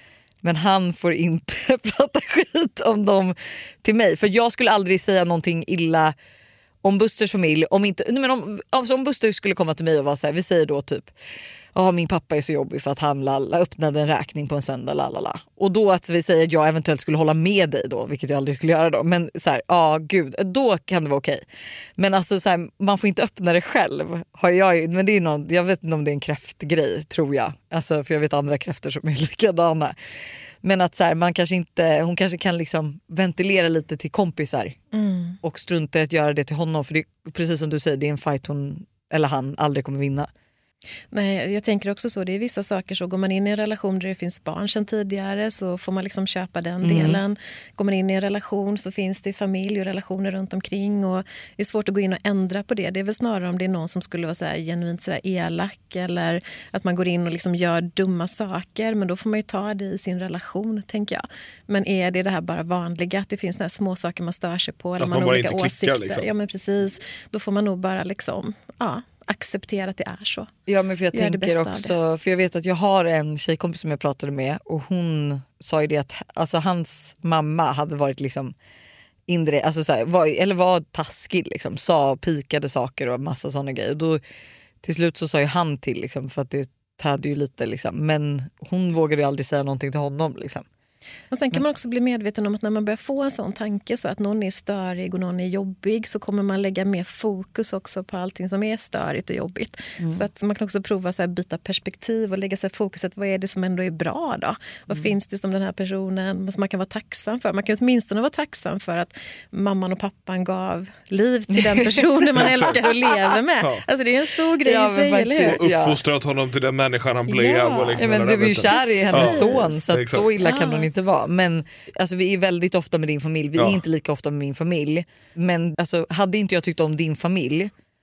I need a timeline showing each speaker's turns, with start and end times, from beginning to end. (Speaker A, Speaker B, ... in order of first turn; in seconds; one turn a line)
Speaker A: 0.4-6.1
Speaker A: 6.8-11.1
Speaker A: 11.7-21.4
Speaker A: 22.0-29.9
Speaker A: 30.6-34.8
Speaker B: 34.9-35.4
Speaker A: 35.4-40.3
Speaker B: 41.1-70.5
Speaker A: 46.8-47.2
Speaker C: 65.0-66.3
Speaker A: 70.7-78.5
Speaker B: 71.1-71.9
Speaker A: 79.3-84.2
Speaker A: 84.8-90.6
Speaker B: 91.3-115.6
Speaker A: 100.0-100.2
Speaker A: 111.5-113.1
Speaker C: 112.3-112.8
Speaker A: 114.6-116.0
Speaker C: 115.4-120.3
Speaker B: 117.3-118.0
Speaker A: 118.0-127.7
Speaker B: 118.6-119.8
Speaker B: 120.4-120.9
Speaker C: 123.5-123.8